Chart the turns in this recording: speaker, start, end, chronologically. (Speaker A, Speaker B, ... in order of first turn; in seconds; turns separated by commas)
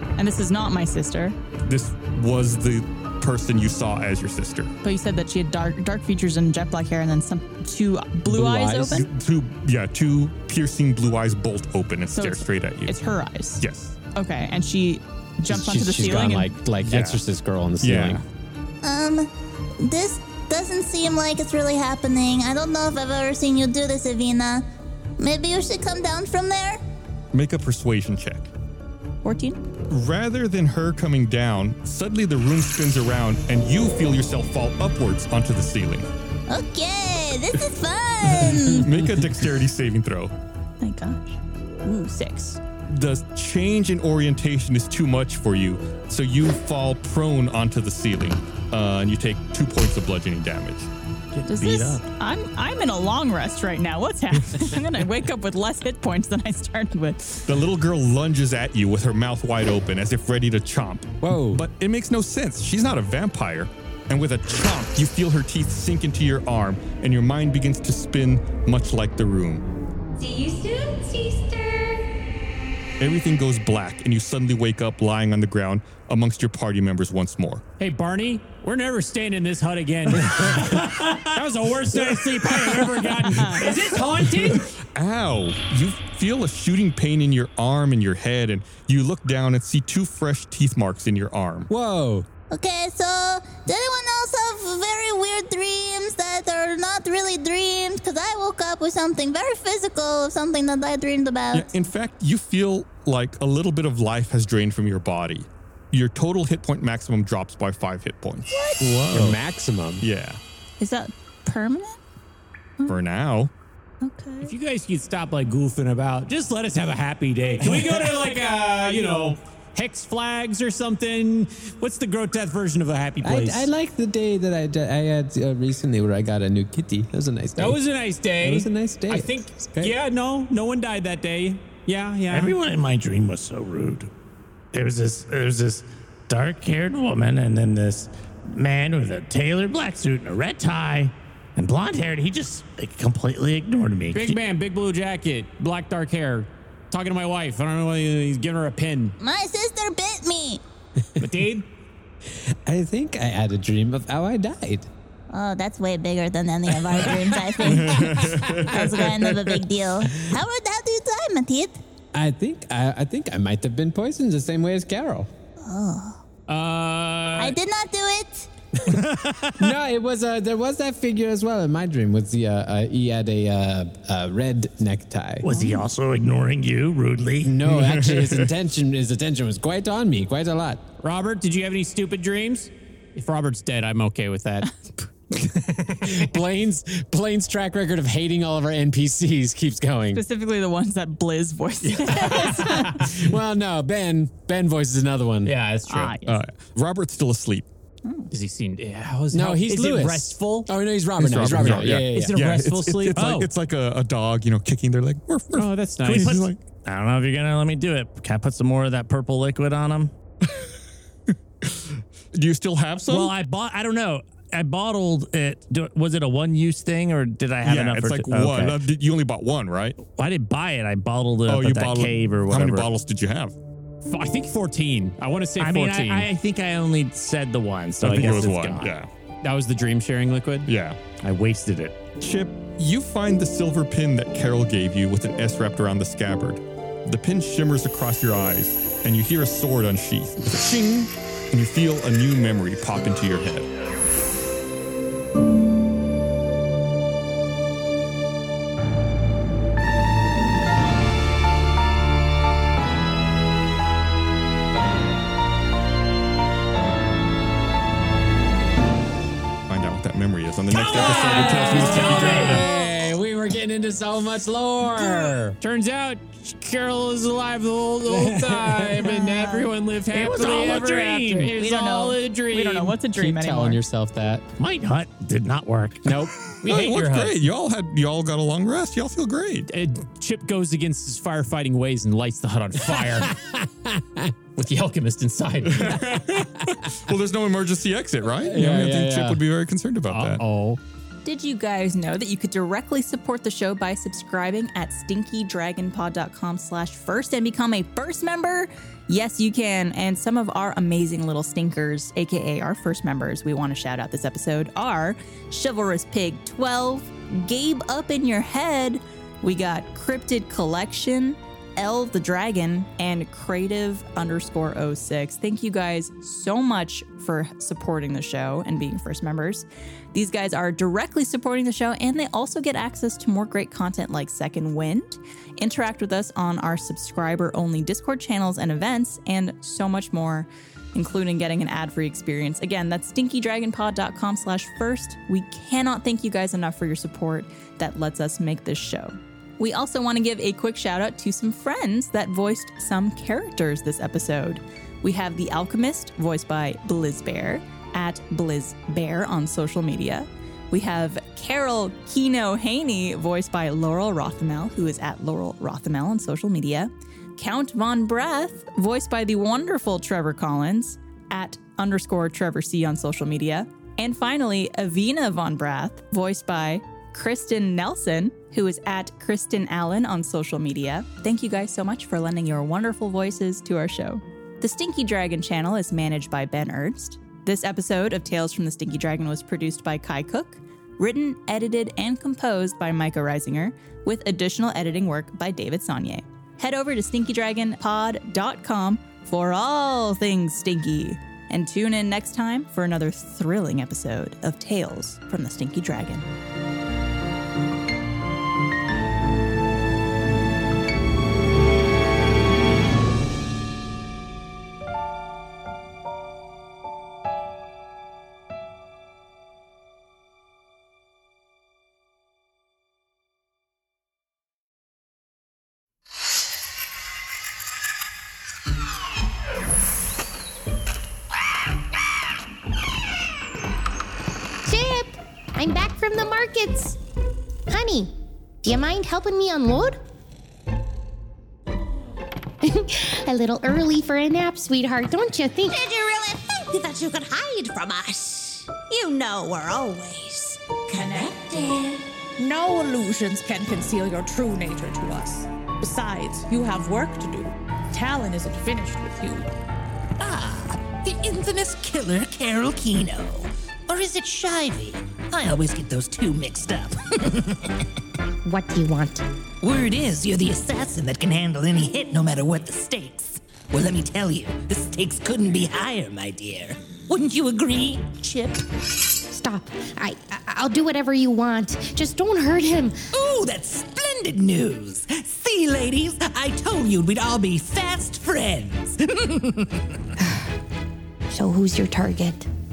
Speaker A: 0.2-1.4, Speaker B: 1.6-4.7, Speaker A: 4.8-9.1, Speaker C: 8.2-9.0, Speaker B: 8.9-12.9, Speaker A: 12.1-13.6, Speaker B: 13.6-13.9, Speaker A: 14.1-16.5, Speaker C: 15.5-18.2, Speaker B: 16.8-17.2, Speaker B: 17.8-18.2, Speaker D: 18.8-24.6, Speaker D: 25.2-26.8, Speaker B: 27.3-28.5, Speaker A: 29.2-29.6, Speaker B: 29.9-36.1, Speaker D: 36.5-39.0, Speaker B: 38.5-40.3, Speaker A: 40.8-42.6, Speaker B: 42.9-50.9, Speaker E: 51.4-52.0, Speaker F: 51.4-52.0, Speaker A: 51.5-57.4, Speaker B: 57.5-69.6, Speaker C: 61.2-61.6, Speaker D: 70.2-72.0, Speaker B: 73.0-77.6, Speaker F: 77.8-84.7, Speaker A: 83.3-83.6, Speaker B: 84.9-91.7, Speaker C: 91.7-92.3, Speaker D: 92.5-101.7, Speaker B: 101.5-109.4, Speaker C: 109.0-110.0, Speaker B: 110.0-110.4, Speaker A: 110.8-112.0, Speaker B: 112.9-113.5, Speaker A: 114.0-114.5, Speaker F: 114.4-123.7, Speaker C: 117.6-117.9, Speaker C: 123.2-127.8, Speaker F: 127.6-132.6, Speaker C: 128.4-130.0, Speaker E: 132.3-134.1, Speaker E: 134.7-144.4, Speaker F: 144.1-149.2, Speaker D: 149.2-150.6, Speaker F: 151.2-151.7, Speaker C: 152.7-154.9, Speaker D: 155.3-161.8, Speaker C: 156.9-158.4, Speaker B: 157.6-158.7, Speaker C: 162.1-165.3, Speaker D: 165.6-166.2, Speaker F: 166.5-167.6, Speaker D: 167.3-168.5, Speaker F: 168.9-169.6, Speaker C: 169.6-175.5, Speaker E: 175.4-177.6, Speaker A: 175.5-175.8, Speaker C: 177.4-180.8, Speaker B: 177.7-178.5, Speaker F: 181.0-184.7, Speaker F: 185.3-186.2, Speaker C: 186.0-190.2, Speaker A: 190.1-193.0, Speaker C: 192.1-195.5, Speaker F: 192.4-192.7, Speaker F: 195.4-196.2, Speaker A: 195.9-196.4, Speaker B: 196.2-197.7, Speaker A: 198.0-198.3, Speaker F: 198.3-200.7, Speaker C: 199.3-202.3, Speaker B: 201.2-206.6, Speaker F: 201.3-203.5, Speaker F: 205.5-206.5, Speaker E: 206.1-210.1, Speaker B: 211.6-213.3, Speaker E: 213.1-218.8, Speaker B: 217.6-220.0, Speaker E: 220.0-222.9, Speaker B: 221.4-223.5, Speaker F: 224.0-226.3, Speaker E: 225.6-229.0, Speaker B: 228.0-229.1, Speaker F: 229.4-230.7, Speaker B: 230.7-231.0, Speaker E: 231.2-232.1, Speaker B: 232.2-243.7, Speaker B: 259.7-262.6, Speaker F: 260.7-262.6, Speaker C: 261.0-265.6, Speaker F: 265.6-273.0, Speaker C: 268.0-269.6, Speaker A: 269.0-273.8, Speaker E: 270.3-271.0, Speaker C: 273.1-274.4, Speaker E: 274.6-276.2, Speaker C: 276.0-276.3, Speaker F: 276.6-277.4, Speaker B: 276.6-279.7, Speaker F: 279.7-283.4, Speaker C: 282.9-284.2, Speaker F: 284.6-286.6, Speaker B: 285.7-290.4, Speaker C: 288.4-289.4, Speaker F: 290.1-290.8, Speaker A: 291.2-396.3, Speaker G: 424.6-427.0, Speaker G: 427.7-430.0, Speaker G: 432.6-435.8, Speaker H: 435.8-438.7, Speaker H: 439.3-441.8, Speaker I: 442.4-449.5, Speaker H: 450.2-457.7, Speaker G: 458.4-459.2, Speaker H: 459.6-468.6, Speaker G: 469.3-473.0, Speaker H: 473.1-479.9, Speaker G: 481.3-482.5